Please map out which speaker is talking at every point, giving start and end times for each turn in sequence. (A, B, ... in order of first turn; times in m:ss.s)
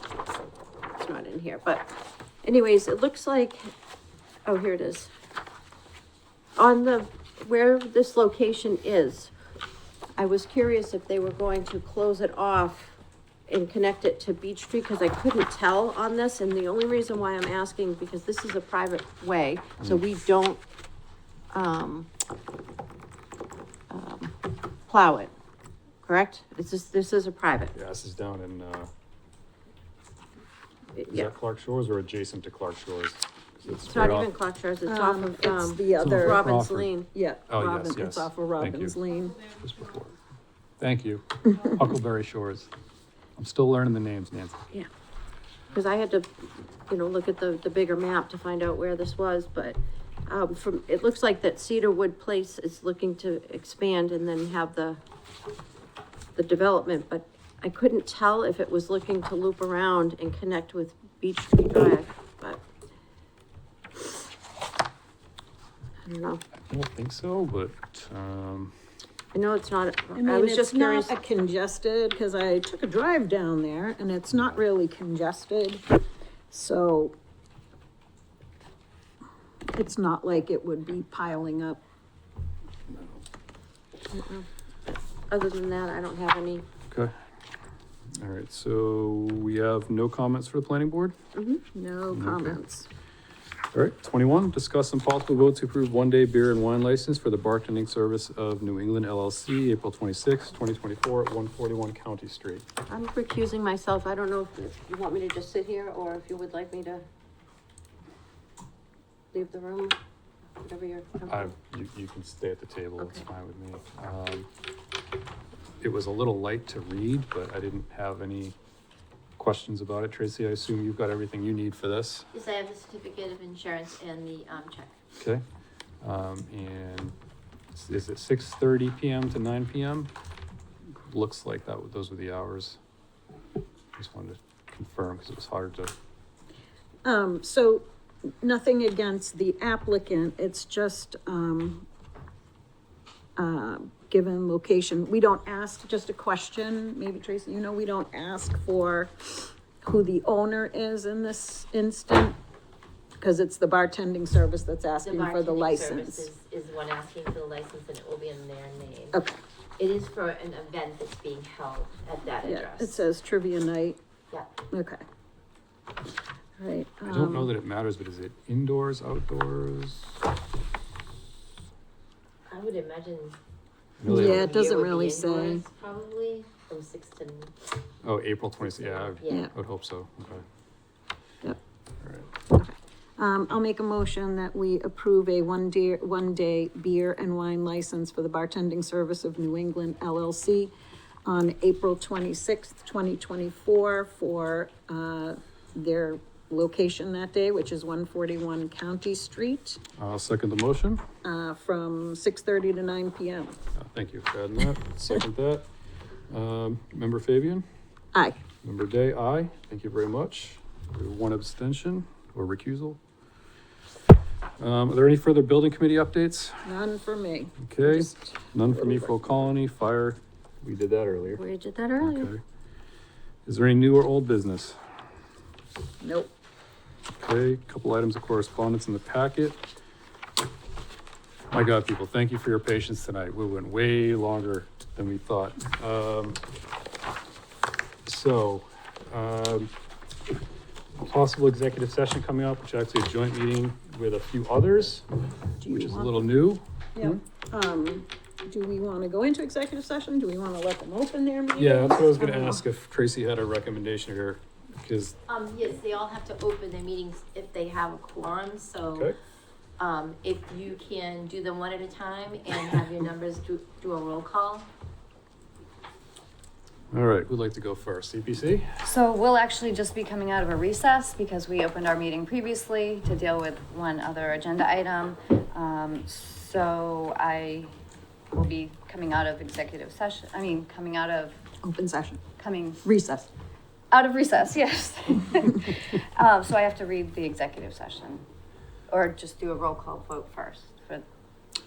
0:01.0-0:01.9 A
0:02.4-0:03.7 A
0:04.4-0:05.1 A
0:06.5-0:09.3 A
0:10.1-0:20.6 A
0:21.5-0:22.1 A
0:23.9-0:24.4 A
0:24.9-0:25.3 A
0:26.0-0:27.7 A
0:27.7-0:28.9 B
0:30.9-0:31.3 A
0:31.1-0:34.3 B
0:33.8-0:37.1 A
0:34.8-0:36.5 C
0:36.0-0:36.9 B
0:37.1-0:39.4 C
0:37.5-0:39.0 B
0:39.6-0:40.1 B
0:40.8-0:42.7 B
0:43.4-0:44.7 B
0:45.7-0:55.0 A
0:56.4-1:02.6 A
1:06.0-1:06.4 A
1:06.7-1:08.7 B
1:09.3-1:11.1 A
1:10.1-1:15.8 C
1:16.5-1:17.1 C
1:19.7-1:21.8 C
1:24.1-1:26.6 A
1:28.2-1:31.1 B
1:31.3-1:31.6 A
1:31.7-1:32.9 C
1:32.1-1:32.6 B
1:33.7-1:42.6 B
1:42.9-1:47.0 A
1:49.3-1:50.0 A
1:50.6-1:51.5 A
1:51.3-1:54.5 B
1:55.8-1:58.6 B
1:59.4-2:02.3 B
2:02.3-2:05.0 A
2:06.0-2:07.1 B
2:07.7-2:10.1 B
2:10.9-2:12.8 B
2:14.0-2:15.9 B
2:17.0-2:17.8 C
2:18.4-2:21.8 C
2:23.4-2:32.4 C
2:33.2-2:36.3 C
2:35.3-2:35.9 D
2:36.4-2:39.1 D
2:39.1-2:39.4 C
2:39.8-2:42.1 D
2:42.1-2:42.9 A
2:42.4-2:44.0 C
2:44.7-2:45.0 C
2:46.6-2:47.5 C
2:47.1-2:50.2 B
2:52.5-2:53.3 D
2:54.0-2:54.6 B
2:54.0-2:55.7 C
2:54.1-2:55.6 A
2:55.8-2:57.5 D
2:58.0-3:00.4 B
2:59.2-2:59.5 C
3:02.0-3:02.3 B
3:02.5-3:10.7 C
3:11.2-3:19.8 C
3:20.0-3:21.0 B
3:21.2-3:23.6 C
3:23.8-3:25.7 B
3:26.3-3:27.6 B
3:28.1-3:28.4 C
3:28.6-3:33.0 B
3:34.6-3:36.7 B
3:36.6-3:39.5 C
3:37.6-3:41.4 B
3:41.3-3:42.3 A
3:42.0-3:42.4 B
3:43.4-3:44.8 B
3:46.0-3:46.3 C
3:47.2-3:49.6 B
3:51.5-3:56.4 B
3:58.0-3:59.7 B
4:01.0-4:05.0 B
4:05.6-4:06.3 C
4:05.6-4:07.2 B
4:07.0-4:12.6 C
4:11.5-4:15.2 B
4:15.3-4:18.8 D
4:18.8-4:19.1 B
4:19.8-4:22.5 D
4:23.2-4:24.6 D
4:26.9-4:28.8 B
4:28.8-4:37.7 E
4:38.3-4:41.5 E
4:41.6-4:42.2 C
4:42.4-4:42.9 E
4:42.8-4:43.3 C
4:43.9-4:48.2 E
4:48.9-4:51.0 E